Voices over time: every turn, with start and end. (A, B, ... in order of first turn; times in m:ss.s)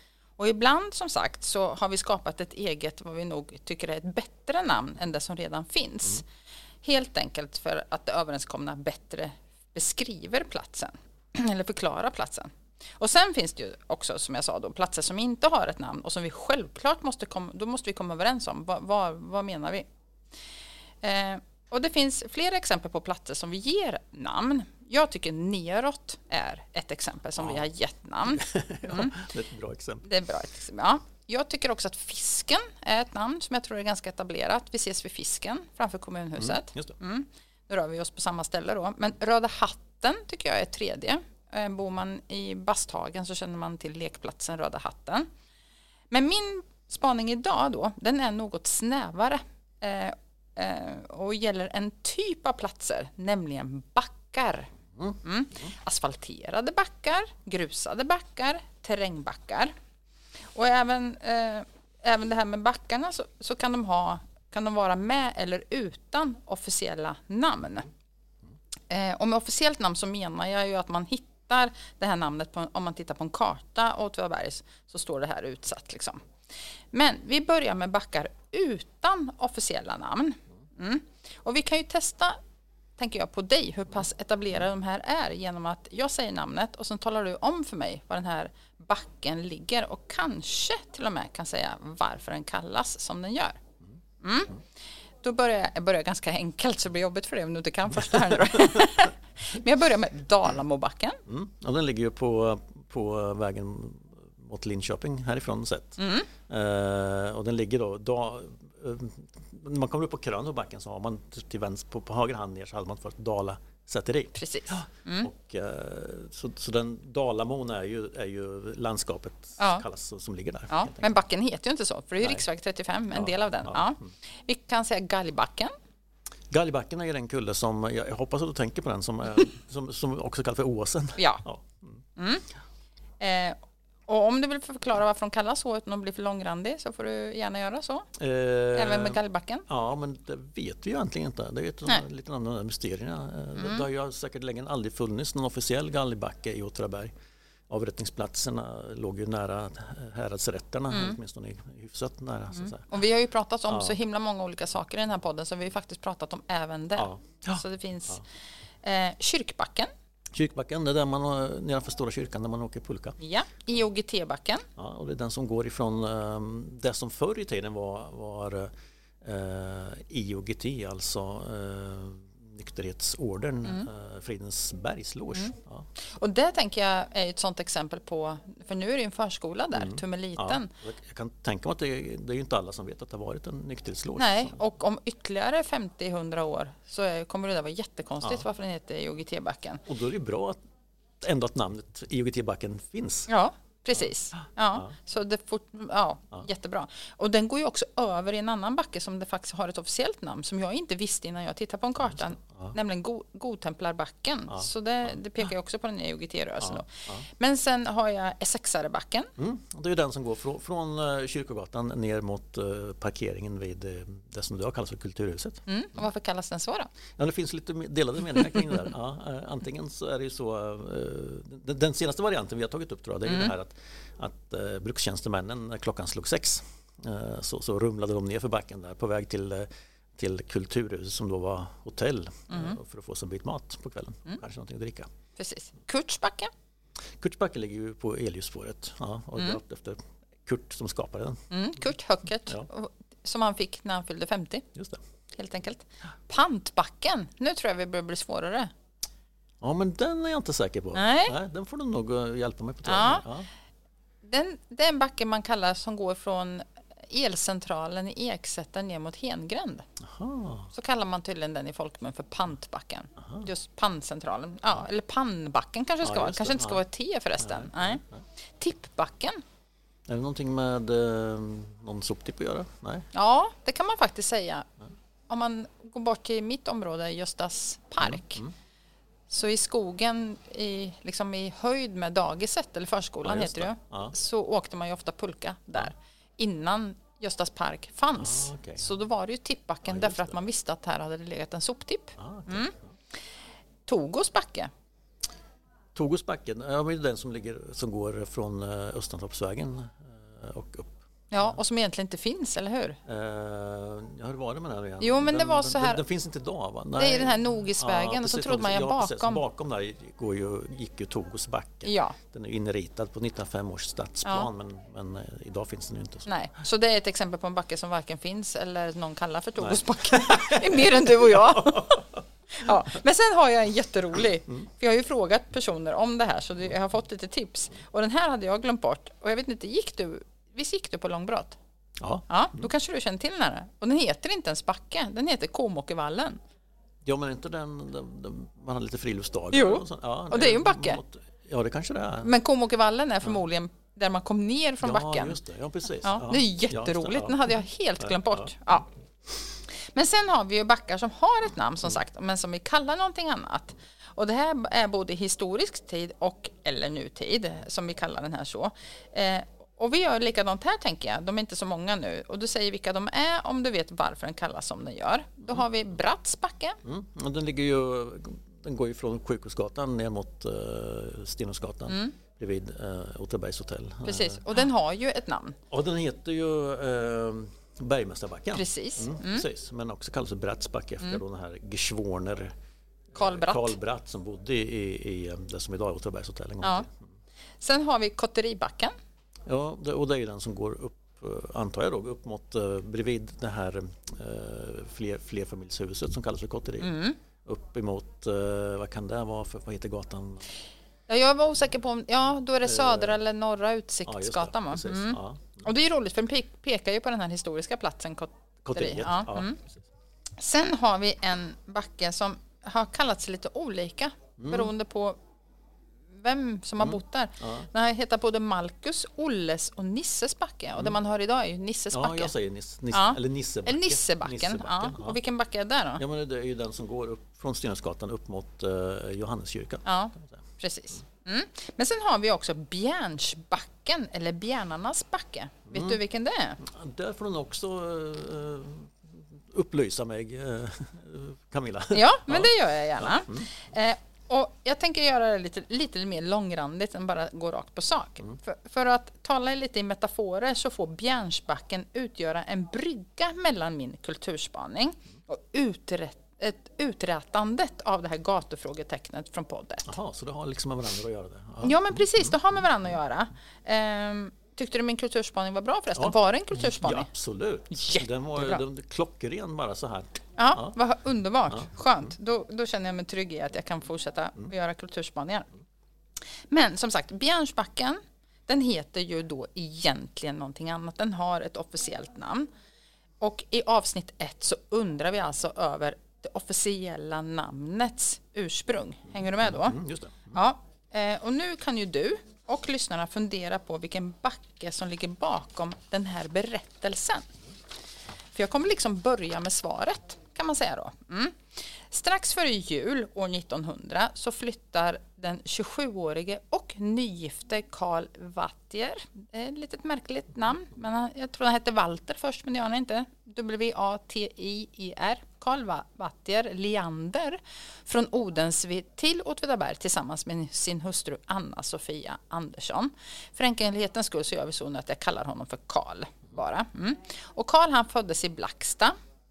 0:00.4-0:06.3 A
0:06.8-0:19.9 A
0:21.0-0:29.2 A
0:28.3-0:30.0 B
0:30.0-0:45.3 A
0:36.4-0:37.0 B
0:46.1-0:54.7 A
0:55.0-0:55.7 B
0:55.2-0:59.7 A
1:00.5-1:07.9 A
1:08.9-1:16.2 A
1:16.9-1:22.4 A
1:23.0-1:33.6 A
1:34.2-1:34.6 A
1:35.2-1:41.2 A
1:38.2-1:38.8 B
1:41.3-2:01.1 B
1:46.0-1:46.3 A
1:54.4-1:55.3 A
1:59.6-1:59.8 A
2:00.7-2:05.7 A
2:03.1-2:04.1 B
2:06.5-2:12.0 B
2:11.2-2:11.4 A
2:12.2-2:12.4 A
2:13.2-2:18.1 A
2:18.2-2:27.1 B
2:18.7-2:19.6 A
2:23.6-2:23.8 A
2:27.7-2:32.9 B
2:30.9-2:31.2 A
2:32.6-2:38.2 A
2:33.7-2:33.9 B
2:37.0-2:38.2 B
2:38.8-2:39.9 A
2:40.3-2:43.2 B
2:43.2-2:44.6 A
2:44.8-2:48.7 B
2:49.2-2:55.9 B
2:56.0-3:00.7 A
2:59.7-3:04.6 B
3:04.2-3:09.8 A
3:09.9-3:10.6 B
3:11.2-3:13.3 B
3:13.3-3:29.3 A
3:14.4-3:14.9 B
3:22.1-3:22.8 B
3:26.6-3:27.3 B
3:29.4-3:35.6 B
3:35.7-3:36.9 A
3:37.2-3:55.1 B
3:38.4-3:38.8 A
3:43.2-3:43.5 A
3:52.5-3:52.8 A
3:55.4-3:56.5 A
3:57.2-4:01.5 B
4:01.5-4:04.7 A
4:04.7-4:05.0 B
4:05.3-4:08.7 A
4:09.6-4:13.5 B
4:10.9-4:11.3 A
4:12.8-4:13.3 A
4:14.2-4:19.8 A
4:20.0-4:20.7 B
4:20.7-4:28.0 A
4:23.2-4:23.5 B
4:26.0-4:26.8 B
4:27.4-4:28.2 B
4:28.6-4:29.4 A
4:30.1-4:33.1 B
4:33.1-4:34.7 A
4:35.3-4:38.4 A
4:38.0-4:38.5 B
4:39.3-4:52.7 A
4:43.2-4:44.1 B
4:48.2-4:48.9 B
4:49.9-4:50.3 B
4:52.2-4:52.9 B
4:53.8-4:54.7 A
4:55.9-5:01.5 B
5:01.3-5:03.0 A
5:03.0-5:16.3 B
5:05.0-5:06.0 A
5:07.0-5:09.4 A
5:11.8-5:12.2 A
5:16.3-5:31.6 A
5:19.6-5:22.2 B
5:32.0-5:32.3 B
5:32.3-5:36.4 A
5:37.0-5:42.3 B
5:39.5-5:41.0 A
5:42.2-5:45.4 A
5:44.8-5:47.4 B
5:46.0-5:48.9 A
5:48.0-5:48.5 B
5:49.6-6:06.8 A
6:06.8-6:14.4 B
6:11.9-6:12.1 A
6:14.0-6:15.6 A
6:15.7-6:22.5 B
6:18.5-6:19.4 A
6:23.1-6:27.1 B
6:23.2-6:23.7 A
6:27.6-6:28.9 A
6:29.5-6:40.5 B
6:36.8-6:37.2 A
6:41.1-6:49.6 A
6:42.6-6:43.2 B
6:44.0-6:45.6 B
6:48.6-6:49.8 B
6:50.4-6:55.2 A
6:54.4-6:54.7 B
6:56.1-7:02.3 A
6:56.8-6:57.7 B
7:01.9-7:05.2 B
7:02.9-7:06.0 A
7:06.0-7:10.4 B
7:09.8-7:16.6 A
7:15.7-7:16.0 B
7:16.6-7:23.5 B
7:21.9-7:39.9 A
7:39.8-7:42.4 B
7:41.6-7:47.1 A
7:46.0-7:50.7 B
7:47.7-7:48.6 A
7:50.4-7:55.5 A
7:56.4-8:02.5 A
8:03.2-8:09.8 A
8:09.4-8:10.4 B
8:10.3-8:17.3 A
8:18.3-8:48.9 A